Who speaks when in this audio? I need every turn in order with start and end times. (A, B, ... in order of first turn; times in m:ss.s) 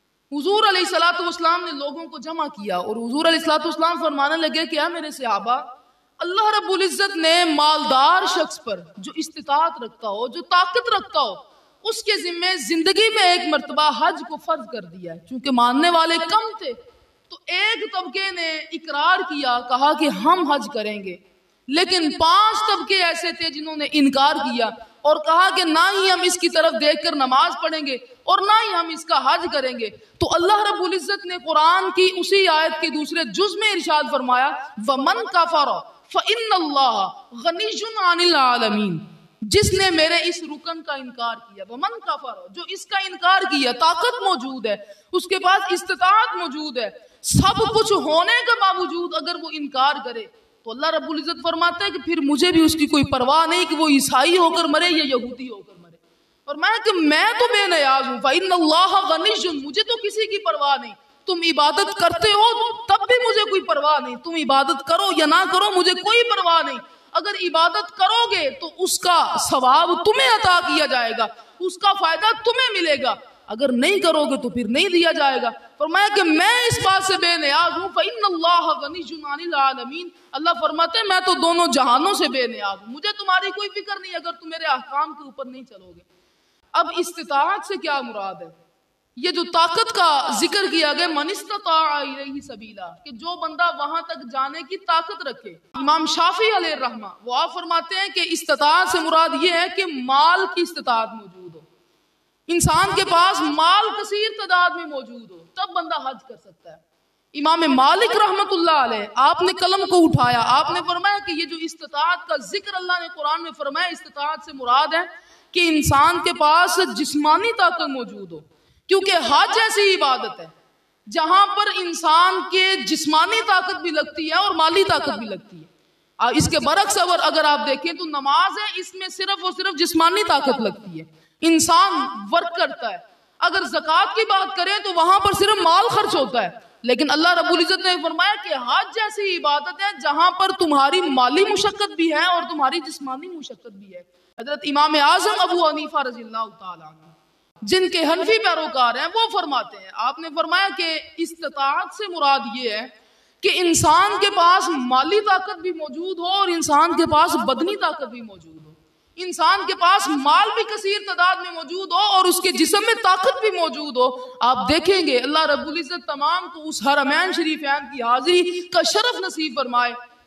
0:00.3-0:05.7 A
0:06.2-0:16.8 A
0:17.3-1:26.0 A
1:26.7-1:28.5 A
1:29.2-1:41.7 A
1:42.5-1:46.8 A
1:47.3-2:00.5 A
2:01.1-2:50.0 A